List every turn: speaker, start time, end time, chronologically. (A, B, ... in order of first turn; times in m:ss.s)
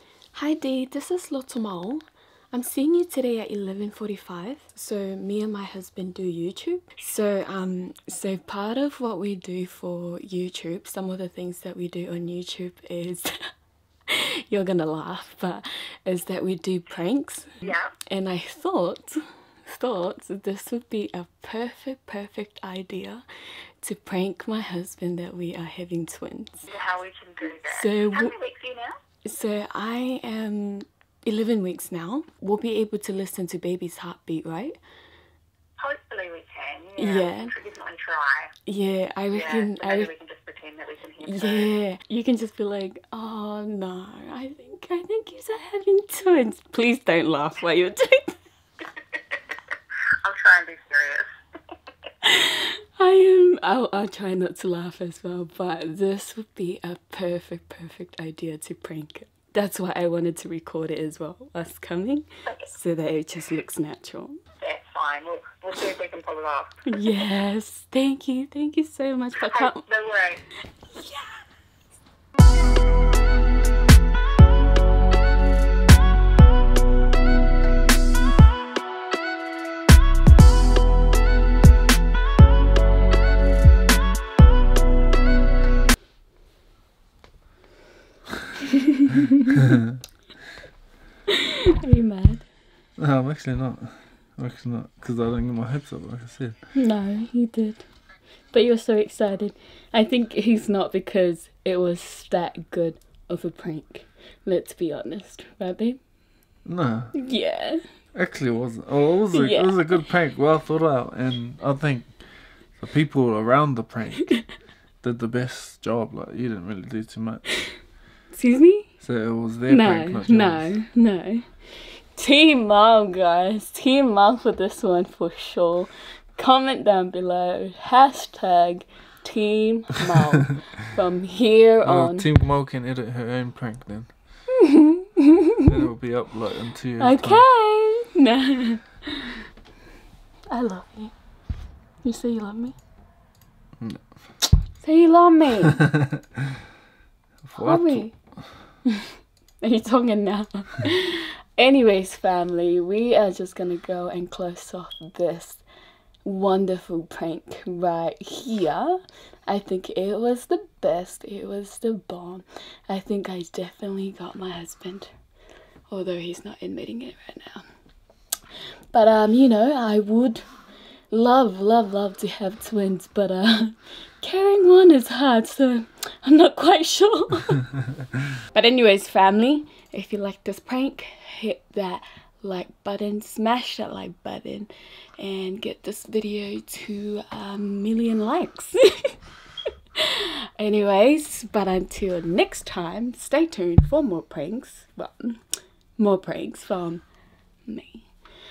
0:00.3-0:13.4 A
0:14.1-0:23.2 A
0:17.6-0:17.9 B
0:23.8-0:26.7 A
0:26.7-0:29.0 B
0:27.7-0:28.4 A
0:29.2-0:34.8 A
0:35.8-0:38.5 B
0:37.0-0:37.5 A
0:38.7-0:40.1 A
0:39.3-0:41.7 B
0:41.2-0:48.4 A
0:50.2-0:51.3 B
0:52.3-1:04.4 A
1:02.4-1:02.7 B
1:04.6-1:06.7 B
1:06.9-1:09.8 A
1:09.5-1:10.4 B
1:10.9-1:11.4 A
1:31.8-1:32.5 A
1:33.0-1:36.6 C
1:36.8-1:37.9 A
1:38.5-1:46.0 A
1:46.6-1:47.1 C
1:47.2-1:47.8 A
1:48.1-1:52.2 C
1:49.3-1:50.0 A
1:52.7-1:54.5 C
1:55.0-1:57.4 C
1:58.3-1:58.9 A
1:59.0-2:00.7 C
1:59.7-2:12.3 A
2:11.8-2:14.1 C
2:14.6-2:15.6 A
2:15.6-2:17.5 C
2:17.0-2:19.3 A
2:20.5-2:21.1 A
2:22.0-2:22.8 A
2:24.8-2:25.9 A
2:27.4-2:28.1 C
2:27.6-2:28.1 A
2:29.6-2:35.6 A
2:36.2-2:45.1 A
2:45.9-2:47.7 A
2:48.9-2:50.5 A
2:51.1-2:57.8 A
2:58.5-3:09.1 A
3:10.0-3:15.4 A
3:16.0-3:17.0 A
3:17.6-3:18.1 A